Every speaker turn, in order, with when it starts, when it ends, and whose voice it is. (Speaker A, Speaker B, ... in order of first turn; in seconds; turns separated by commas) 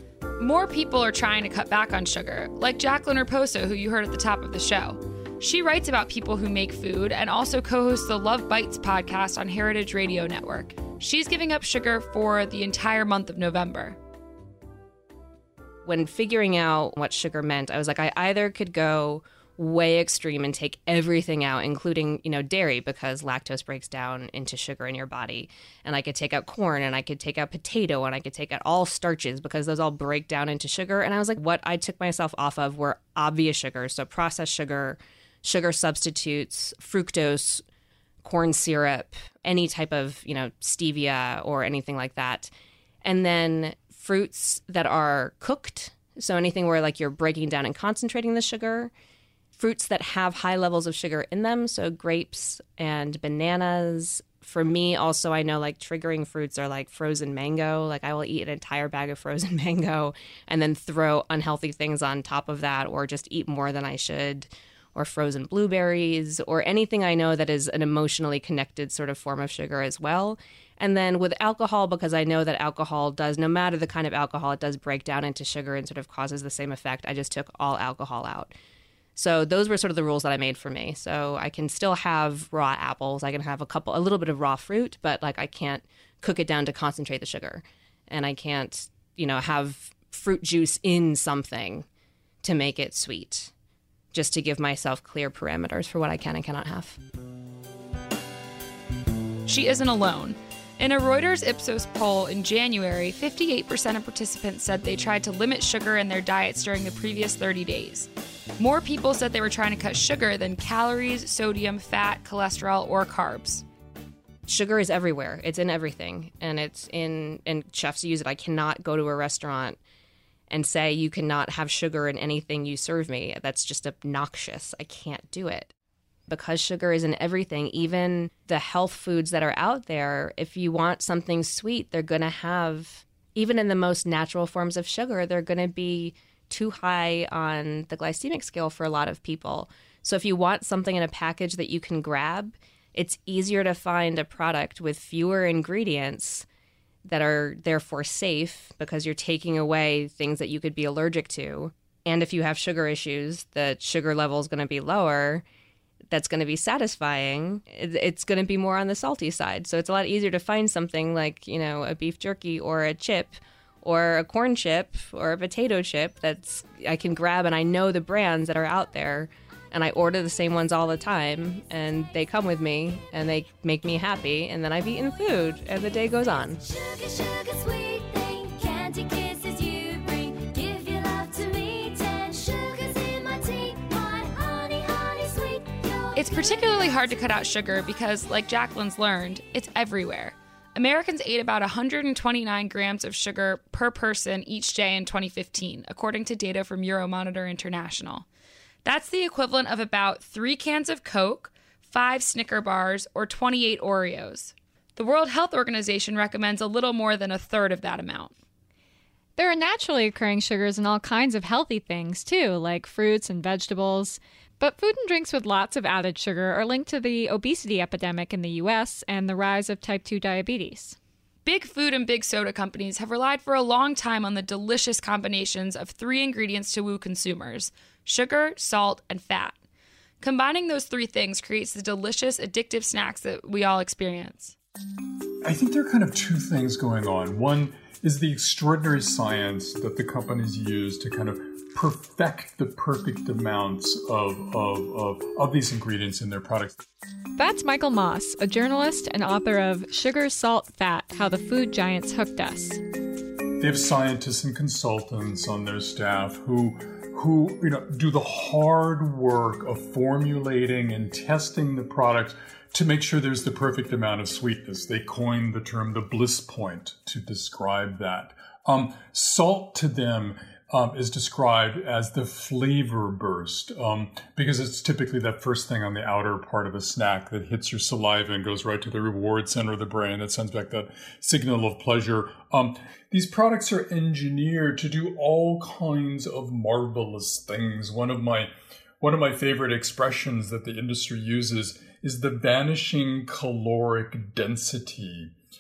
Speaker A: 0.4-14.0, Speaker B: 15.8-37.6, Speaker B: 38.2-42.5, Speaker B: 43.0-48.9, Speaker B: 49.6-78.5, Speaker B: 79.2-91.9, Speaker B: 92.4-93.5, Speaker B: 94.1-97.0, Speaker A: 99.5-113.6, Speaker B: 114.5-119.8, Speaker B: 120.5-125.7, Speaker B: 126.3-146.5, Speaker B: 147.0-155.4, Speaker B: 156.1-176.6, Speaker C: 176.6-187.2, Speaker A: 186.2-198.3, Speaker A: 198.8-208.3, Speaker D: 209.4-221.0, Speaker A: 221.4-229.6, Speaker A: 230.2-234.6, Speaker E: 235.4-246.8, Speaker D: 247.4-252.8, Speaker E: 253.6-295.3